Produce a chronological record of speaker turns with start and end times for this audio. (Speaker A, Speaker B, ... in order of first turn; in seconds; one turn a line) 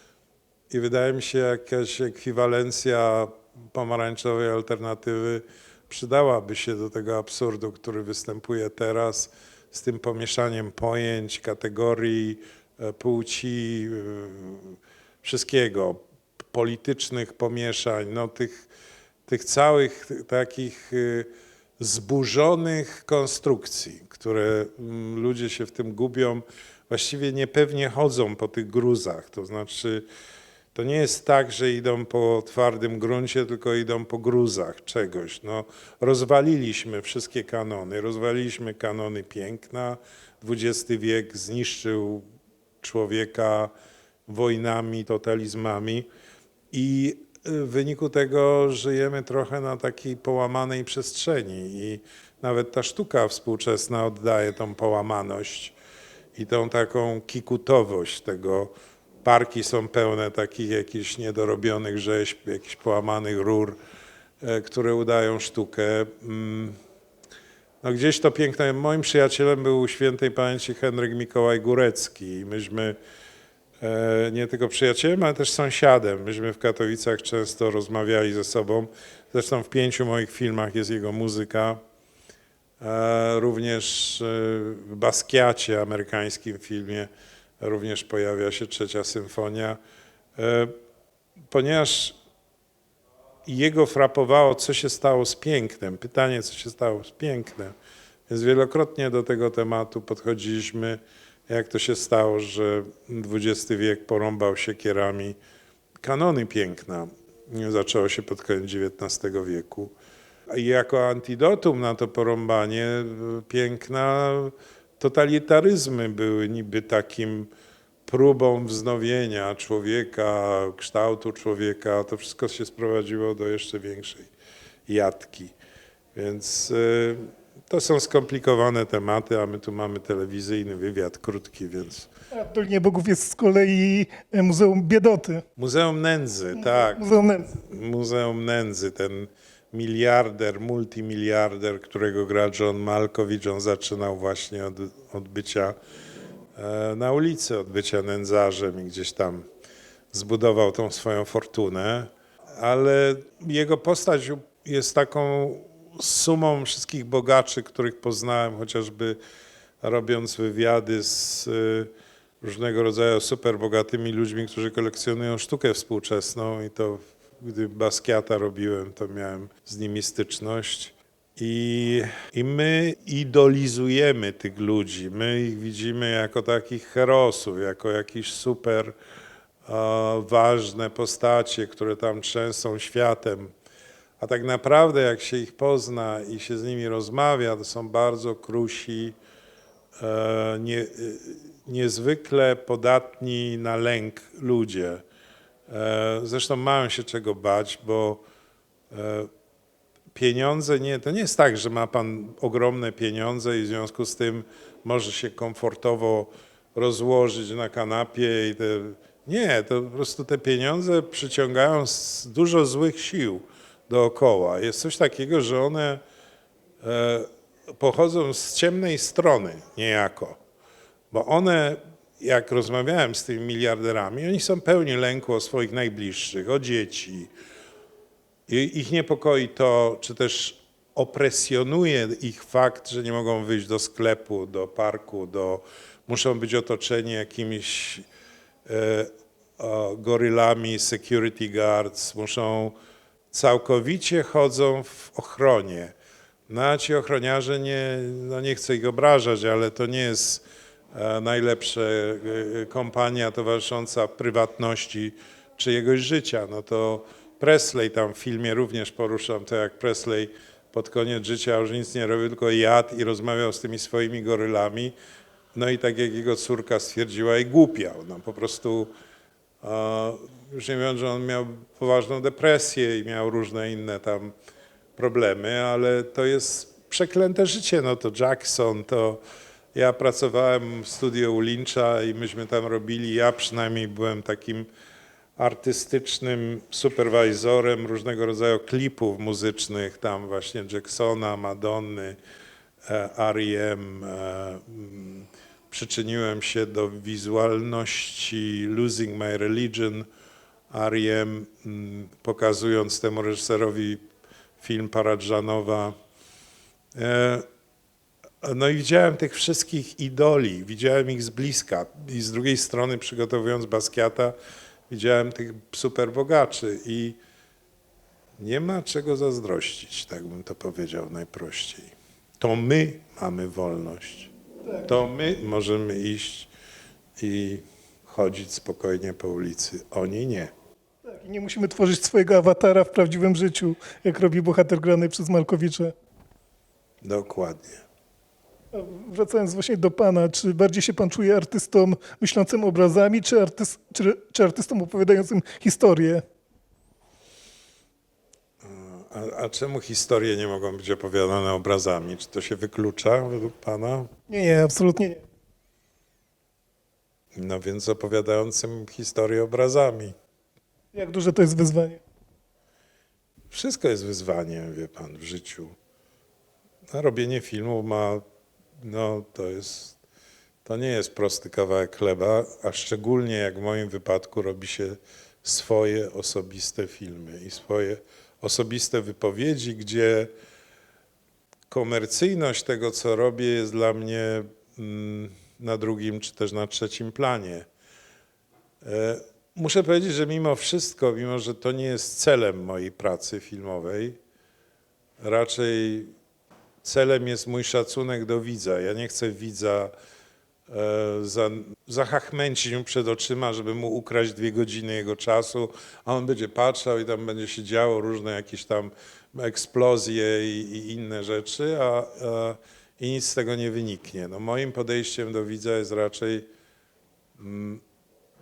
Speaker A: 0.7-16.0
Speaker A: 16.5-18.7
Speaker A: 19.3-21.3
Speaker A: 21.8-30.0
Speaker A: 30.7-42.2
Speaker A: 42.8-43.7
Speaker A: 44.3-46.0
Speaker A: 46.7-55.7
Speaker A: 56.4-58.7
Speaker A: 59.2-63.8
Speaker A: 64.4-66.7
Speaker A: 67.8-73.0
Speaker A: 73.8-81.8
Speaker A: 82.8-87.1
Speaker A: 87.6-89.8
Speaker A: 90.3-90.7
Speaker A: 91.5-92.1
Speaker A: 93.5-97.7
Speaker A: 98.3-105.4
Speaker A: 106.0-109.9
Speaker A: 110.5-117.5
Speaker A: 118.1-124.3
Speaker A: 124.9-125.5
Speaker A: 126.1-132.1
Speaker B: 132.3-135.4
Speaker A: 135.6-137.0
Speaker B: 136.5-137.6
Speaker A: 137.6-145.8
Speaker A: 146.6-149.4
Speaker A: 150.1-159.2
Speaker A: 159.8-161.9
Speaker A: 162.4-178.9
Speaker A: 179.7-183.5
Speaker A: 184.2-189.2
Speaker A: 190.0-195.0
Speaker A: 195.7-198.2
Speaker A: 198.9-199.3
Speaker A: 200.1-216.0
Speaker A: 216.8-220.4
Speaker A: 221.1-227.3
Speaker A: 228.5-238.1
Speaker A: 238.7-242.7
Speaker A: 243.3-245.9
Speaker A: 246.5-264.9
Speaker A: 265.5-268.9
Speaker A: 269.6-274.3
Speaker A: 275.0-279.2
Speaker A: 279.7-284.7
Speaker A: 285.4-292.2
Speaker A: 292.8-300.1
Speaker A: 300.7-304.0
Speaker A: 304.6-305.9
Speaker A: 306.9-307.4
Speaker A: 308.4-314.3
Speaker A: 314.9-317.2
Speaker A: 318.4-324.3
Speaker B: 324.6-324.9
Speaker A: 324.8-326.5
Speaker A: 327.2-330.5
Speaker B: 331.0-335.9
Speaker A: 337.0-337.8
Speaker B: 338.7-346.2
Speaker A: 348.6-354.1
Speaker B: 354.3-355.2
Speaker A: 357.3-360.1
Speaker B: 360.9-362.0
Speaker A: 363.5-365.7
Speaker A: 366.9-368.2
Speaker A: 368.8-370.0
Speaker A: 370.6-380.3
Speaker A: 381.7-387.7
Speaker A: 388.8-394.2
Speaker A: 395.2-396.1
Speaker A: 396.8-399.9
Speaker A: 400.7-416.5
Speaker A: 417.4-417.8